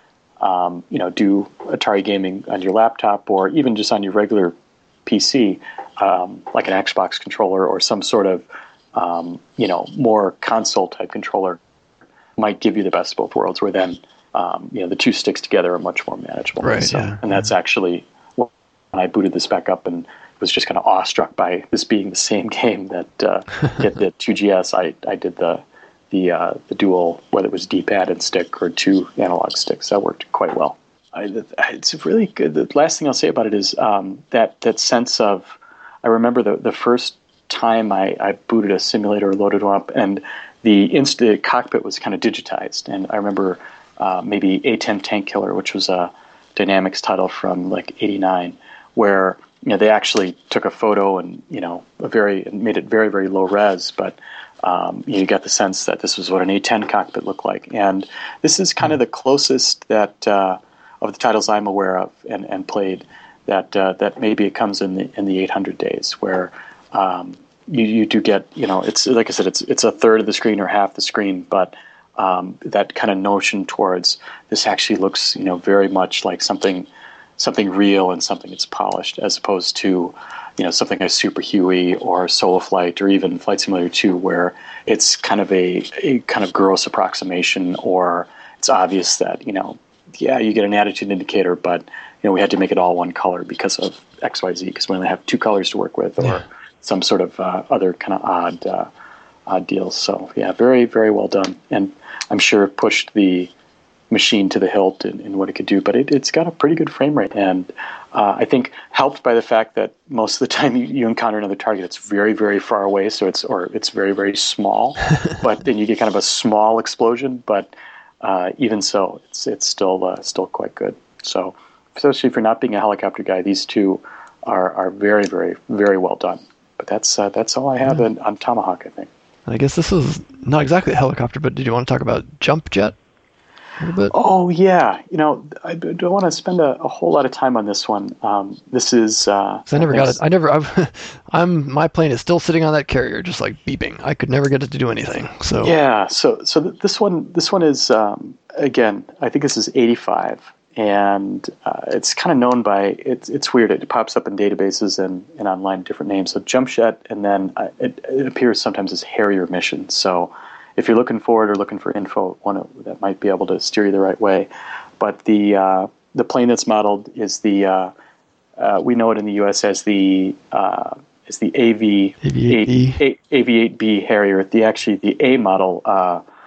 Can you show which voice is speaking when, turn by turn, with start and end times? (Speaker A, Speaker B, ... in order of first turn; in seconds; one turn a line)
Speaker A: 0.4-4.5
Speaker A: 5.1-11.6
Speaker A: 12.4-98.9
Speaker B: 16.6-17.2
Speaker A: 99.5-103.5
Speaker A: 104.1-117.7
Speaker A: 118.2-129.1
Speaker B: 129.5-132.9
Speaker B: 133.8-134.1
Speaker A: 134.1-140.2
Speaker B: 139.7-145.7
Speaker A: 145.6-164.5
Speaker A: 165.0-167.9
Speaker A: 168.6-176.2
Speaker B: 172.2-173.0